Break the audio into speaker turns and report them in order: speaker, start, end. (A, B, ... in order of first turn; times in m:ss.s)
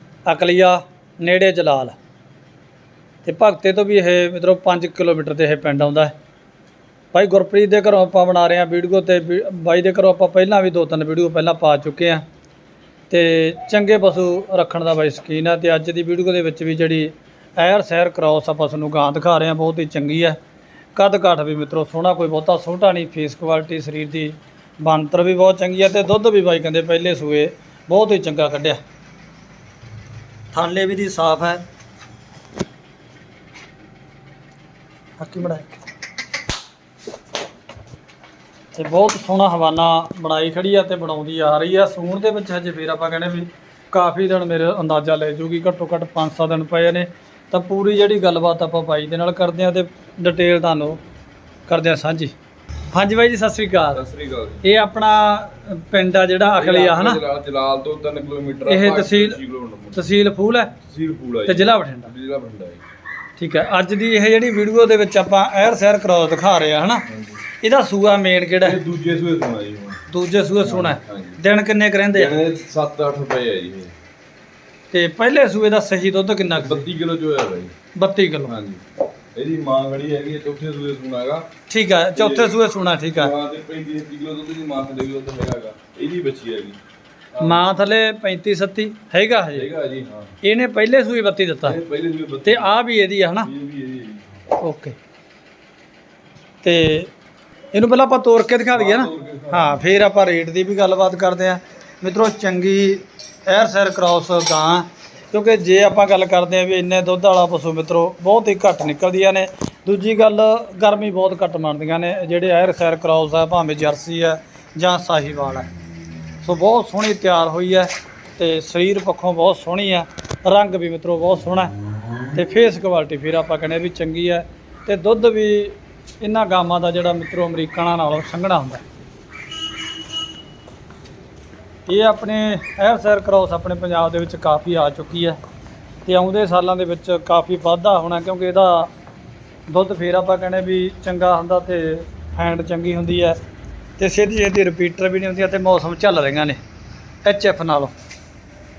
0:00.3-0:02.0 A
0:03.2-0:06.1 A
0:07.1-0:12.2 A
0:13.1-0:20.4 A
0:21.0-0:28.8 A
0:30.5-0:31.6 A
0:35.2-0:35.7 A
0:38.8-0:51.0 A
0:51.7-0:52.3 A
0:52.9-0:54.0 A
0:53.9-0:54.6 B
0:54.6-0:57.2 A
0:56.6-1:00.1 B
0:58.7-0:59.4 A
0:59.9-1:00.7 A
1:00.8-1:02.8 B
1:01.5-1:02.1 A
1:03.4-1:07.0 A
1:07.1-1:07.4 B
1:07.6-1:08.8 A
1:08.6-1:10.0 B
1:10.1-1:12.3 A
1:10.6-1:11.4 B
1:12.1-1:13.9 B
1:14.9-1:16.9 A
1:16.6-1:17.7 B
1:18.0-1:18.5 A
1:18.5-1:18.8 B
1:19.4-1:21.5 B
1:21.7-1:23.3 A
1:22.2-1:22.6 B
1:23.1-1:26.8 B
1:27.4-1:27.6 B
1:27.4-1:29.7 A
1:29.5-1:30.3 B
1:30.4-1:31.8 A
1:31.6-1:32.7 B
1:32.4-1:33.5 A
1:33.4-1:34.3 B
1:34.6-1:35.0 A
1:36.6-1:37.1 A
1:37.7-1:55.7 A
1:38.7-1:39.8 B
1:56.4-2:01.7 A
2:02.3-2:08.8 A
2:11.9-2:15.4 A
2:16.0-2:18.9 A
2:19.7-2:23.4 A
2:24.0-2:26.6 A
2:27.2-2:27.9 A